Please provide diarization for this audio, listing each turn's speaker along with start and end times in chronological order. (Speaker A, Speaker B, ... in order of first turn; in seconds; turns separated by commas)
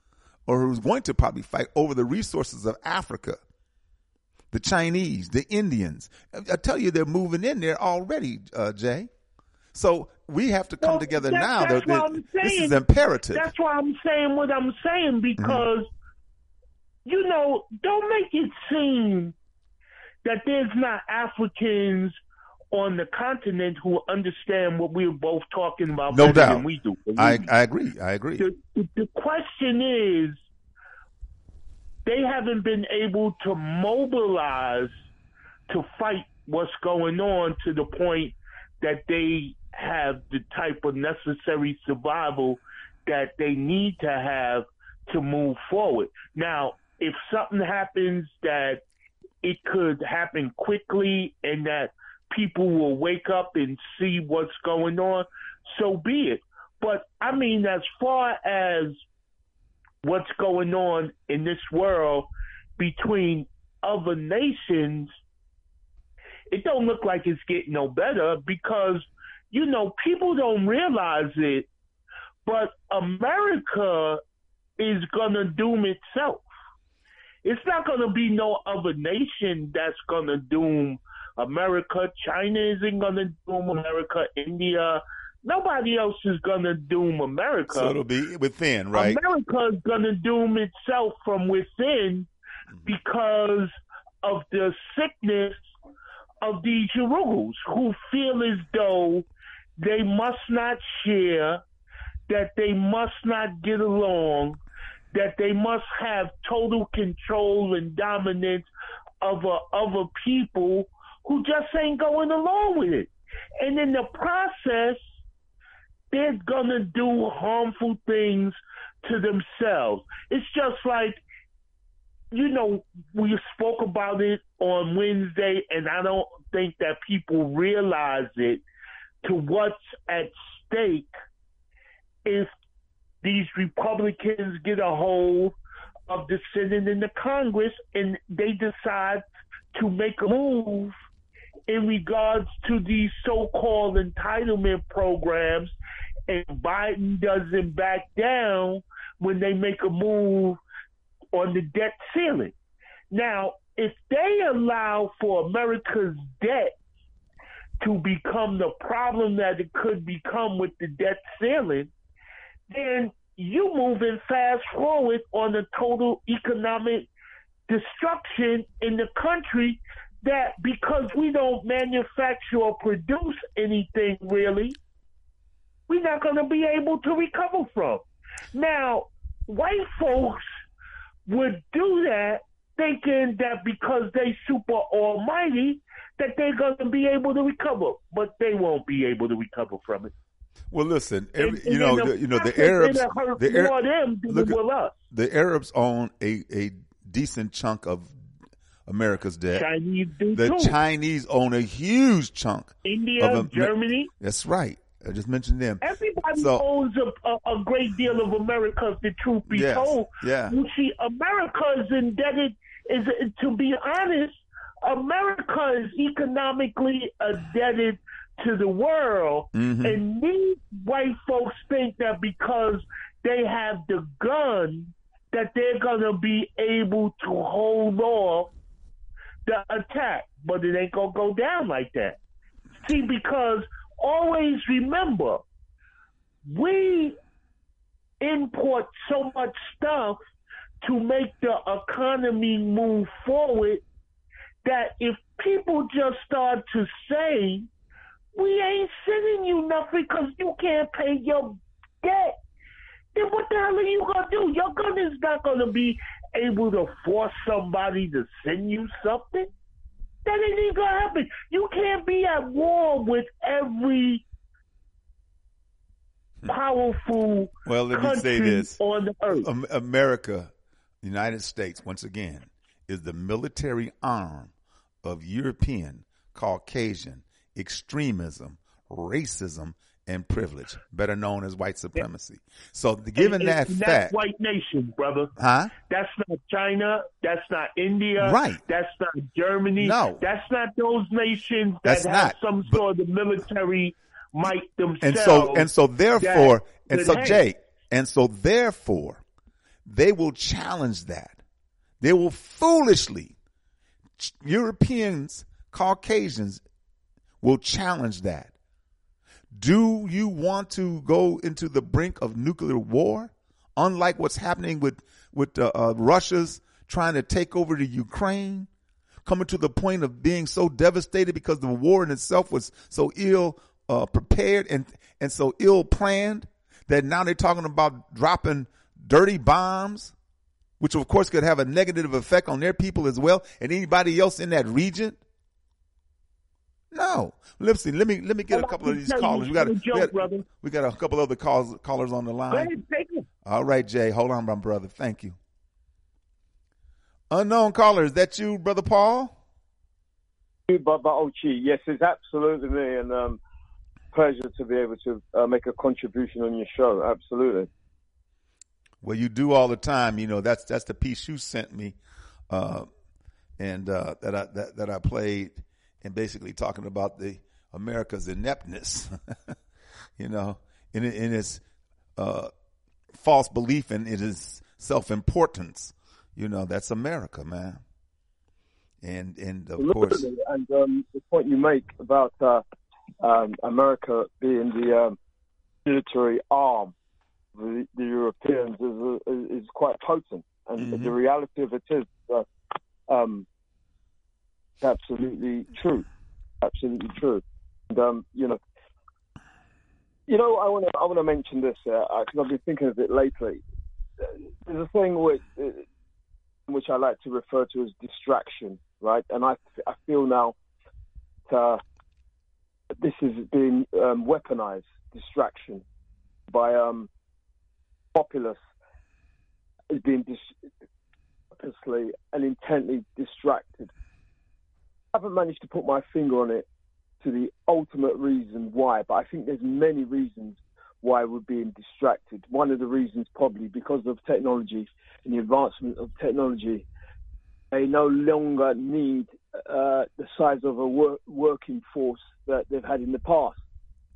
Speaker A: 0.5-3.4, Speaker A: 4.5-9.1, Speaker A: 9.7-13.5, Speaker B: 10.8-15.9, Speaker A: 15.4-15.6, Speaker B: 17.0-19.3, Speaker B: 20.2-22.2, Speaker B: 22.7-27.5, Speaker A: 26.1-28.5, Speaker B: 28.4-30.4, Speaker B: 32.0-34.9, Speaker B: 35.7-48.8, Speaker B: 49.4-59.0, Speaker B: 60.0-65.1, Speaker B: 66.5-71.7, Speaker B: 72.5-74.2, Speaker B: 74.8-76.5, Speaker B: 77.4-87.9, Speaker A: 87.7-89.2, Speaker B: 88.9-92.3, Speaker B: 92.8-95.6, Speaker B: 96.4-99.2, Speaker B: 99.8-101.6, Speaker B: 102.3-104.6, Speaker B: 105.1-108.7, Speaker B: 109.2-115.0, Speaker B: 116.1-121.2, Speaker B: 122.3-128.6, Speaker B: 129.2-131.1, Speaker B: 132.2-132.5, Speaker B: 133.2-135.5, Speaker B: 136.1-139.2, Speaker B: 139.7-140.9, Speaker B: 141.7-145.7, Speaker B: 146.3-150.6, Speaker B: 151.3-152.5, Speaker B: 153.1-156.8, Speaker B: 157.8-161.9, Speaker B: 162.7-167.1, Speaker B: 167.7-174.8, Speaker B: 175.9-180.5, Speaker B: 181.3-190.1, Speaker A: 190.7-194.6, Speaker B: 191.4-195.0, Speaker A: 195.1-198.2, Speaker A: 198.8-199.7, Speaker B: 199.5-200.8, Speaker A: 200.3-205.8, Speaker B: 202.8-204.1, Speaker B: 205.8-228.5, Speaker A: 206.3-206.6, Speaker A: 209.5-210.5, Speaker A: 219.5-220.0, Speaker B: 229.4-232.2, Speaker B: 232.8-235.4, Speaker B: 236.4-237.2, Speaker B: 238.2-240.2, Speaker B: 240.8-243.8, Speaker B: 244.6-247.7, Speaker B: 248.3-252.4, Speaker B: 253.1-259.5, Speaker B: 260.2-264.2, Speaker B: 266.5-269.5, Speaker A: 267.6-268.8, Speaker A: 269.3-270.5, Speaker A: 271.0-284.2, Speaker B: 283.2-297.4, Speaker A: 285.4-285.7, Speaker A: 288.2-288.6, Speaker A: 289.8-290.2, Speaker A: 291.8-292.8, Speaker A: 295.0-299.2, Speaker A: 299.9-301.4, Speaker A: 302.0-303.3, Speaker A: 304.2-306.6, Speaker A: 307.4-308.5, Speaker A: 309.5-318.7, Speaker A: 319.2-330.1, Speaker A: 330.8-335.2, Speaker A: 336.9-342.7, Speaker B: 338.5-340.4, Speaker B: 342.5-343.2, Speaker A: 343.4-345.4, Speaker A: 347.3-349.4, Speaker C: 350.7-353.4, Speaker C: 354.1-357.7, Speaker A: 359.0-362.0, Speaker A: 362.5-362.9, Speaker A: 363.6-369.5, Speaker A: 370.2-371.6, Speaker A: 372.2-372.5, Speaker A: 373.1-377.8, Speaker A: 379.0-380.3, Speaker C: 379.8-382.6, Speaker C: 383.2-385.2, Speaker C: 385.8-386.9, Speaker C: 387.6-392.4, Speaker A: 390.8-391.1, Speaker C: 393.1-393.4, Speaker C: 394.8-396.1, Speaker C: 396.6-398.6, Speaker C: 400.3-403.6, Speaker C: 404.2-405.8, Speaker C: 406.7-410.5, Speaker C: 411.5-411.8, Speaker C: 412.9-415.8, Speaker C: 416.5-417.1, Speaker C: 418.1-418.6, Speaker C: 419.9-420.5, Speaker C: 421.5-423.9, Speaker C: 425.1-426.6, Speaker C: 427.2-436.9, Speaker C: 437.7-443.6